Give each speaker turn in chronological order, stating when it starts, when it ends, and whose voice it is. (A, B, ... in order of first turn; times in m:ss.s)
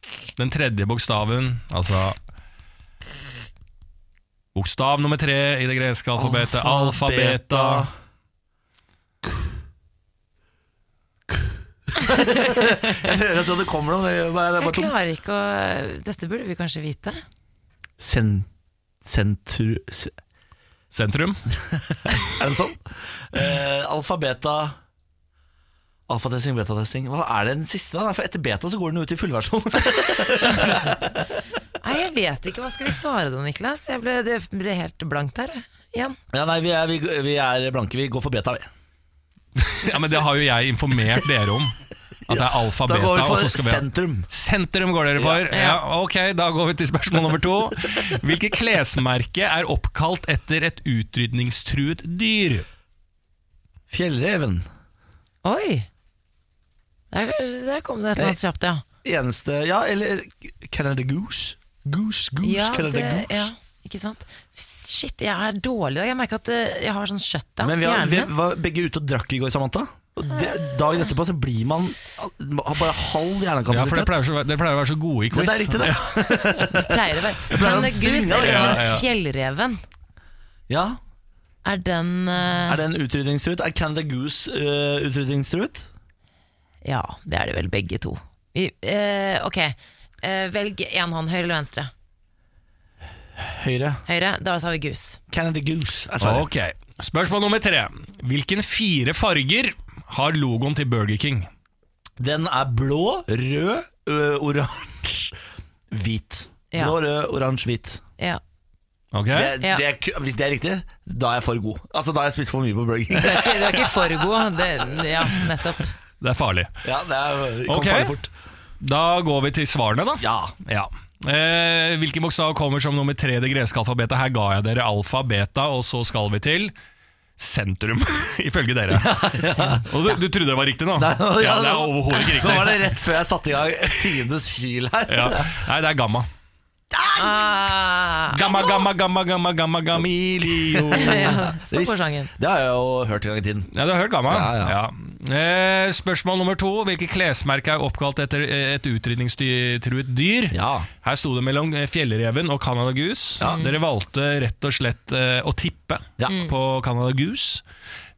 0:00.4-0:02.2 A
0:04.5-0:07.9 A
0:06.2-0:07.9 B
0:12.1-0:14.9 B
0:14.6-0:17.2 C
0:18.0-0:18.5 B
0:19.0-0:20.1 B
0:20.9-0:21.4 A
0:22.2-0:24.8 B
0:26.1-0:31.0 B
0:31.8-0:36.2 C
0:36.3-0:38.7 B
0:39.6-0:41.8 A
0:42.3-0:52.6 A
0:42.3-0:44.3 B
0:45.2-0:45.4 B
0:45.5-0:45.8 C
0:53.9-0:54.6 B
0:55.4-0:55.9 C
0:57.1-0:58.8 C
0:59.0-1:03.5 B
1:02.4-1:08.3 C
1:07.6-1:14.2 B
1:13.7-1:16.2 A
1:15.3-1:16.9 B
1:16.8-1:19.8 C
1:17.4-1:19.0 B
1:18.3-1:19.1 A
1:20.7-1:21.0 B
1:21.6-1:22.8 C
1:22.6-1:25.9 B
1:26.8-1:31.9 C
1:33.4-1:34.0 B
1:34.1-1:35.2 C
1:35.3-1:36.5 B
1:36.2-1:41.5 A
1:42.2-1:45.4 B
1:45.9-1:48.0 B
1:49.1-1:49.5 A
1:49.3-1:54.0 B
1:53.1-1:55.9 C
1:56.2-1:56.7 A
1:56.8-1:58.3 B
1:57.7-1:58.1 A
1:58.8-2:06.7 A
2:00.2-2:00.5 B
2:07.4-2:13.0 A
2:08.9-2:09.8 B
2:11.0-2:15.5 B
2:15.1-2:16.3 A
2:16.9-2:17.5 B
2:17.2-2:18.5 C
2:18.3-2:21.4 A
2:20.4-2:23.7 B
2:20.9-2:22.3 C
2:23.7-2:37.6 A
2:24.3-2:24.8 B
2:30.5-2:30.9 B
2:33.4-2:33.8 C
2:36.3-2:36.5 C